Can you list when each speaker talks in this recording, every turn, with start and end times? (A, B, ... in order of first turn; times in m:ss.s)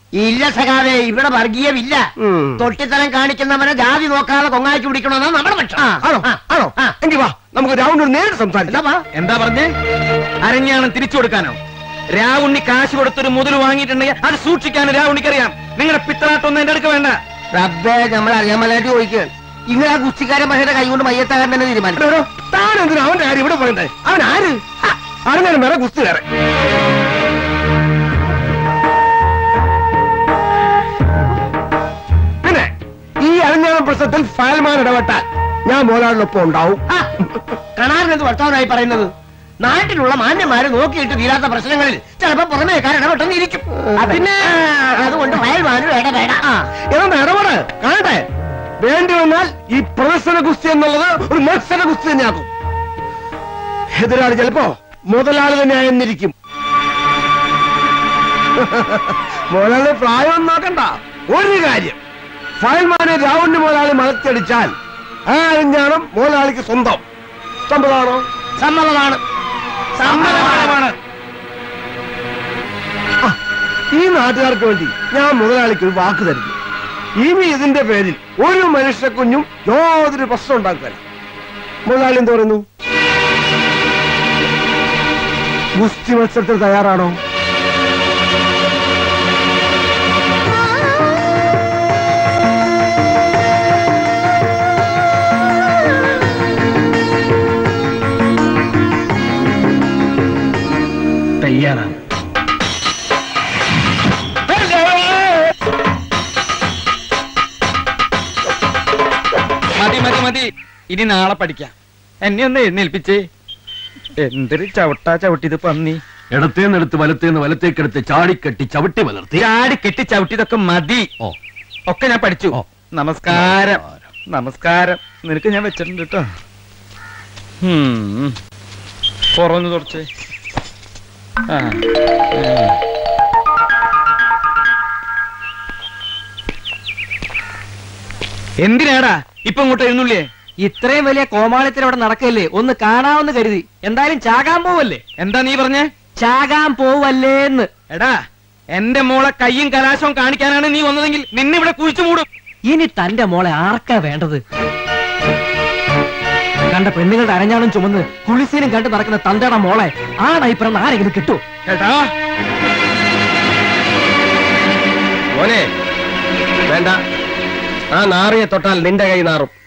0:00.2-0:02.0 A
0:02.2-0:02.7 B
0:02.6-0:06.9 A
0:06.0-0:08.8 B
0:08.7-0:09.0 A
0:09.1-0:09.7 C
0:10.4-0:11.6 C
0:12.1-0:17.1 C
0:17.5-0:22.1 A
0:22.0-0:24.6 B
0:25.2-0:26.2 B
0:33.2-0:36.8 B
0:37.8-0:39.1 A
0:39.6-0:46.5 A
0:46.9-0:48.2 B
0:48.8-0:52.5 B
0:53.9-0:56.3 B
0:58.6-1:02.0 B
1:02.6-1:04.7 B
1:05.3-1:07.0 B
1:07.7-1:08.2 B
1:08.6-1:09.2 A
1:10.0-1:10.8 A
1:10.2-1:10.6 B
1:13.9-1:16.5 B
1:17.2-1:21.0 B
1:21.8-1:22.6 B
1:25.8-1:27.1 B
1:41.4-1:41.9 C
1:44.6-1:45.0 C
1:49.8-1:51.7 C
1:52.2-1:53.2 C
1:54.2-1:56.0 C
1:56.5-1:59.4 B
1:59.4-2:01.1 C
2:01.9-2:03.8 C
2:04.3-2:06.2 C
2:07.6-2:08.3 C
2:09.3-2:10.0 C
2:12.4-2:12.7 C
2:18.6-2:20.2 C
2:20.6-2:25.0 D
2:25.1-2:25.9 C
2:26.2-2:27.7 D
2:27.9-2:28.2 C
2:28.7-2:32.2 C
2:32.7-2:34.4 D
2:36.7-2:41.4 D
2:41.6-2:42.0 C
2:45.3-2:45.7 E
2:46.7-2:47.0 E
2:47.9-2:49.5 E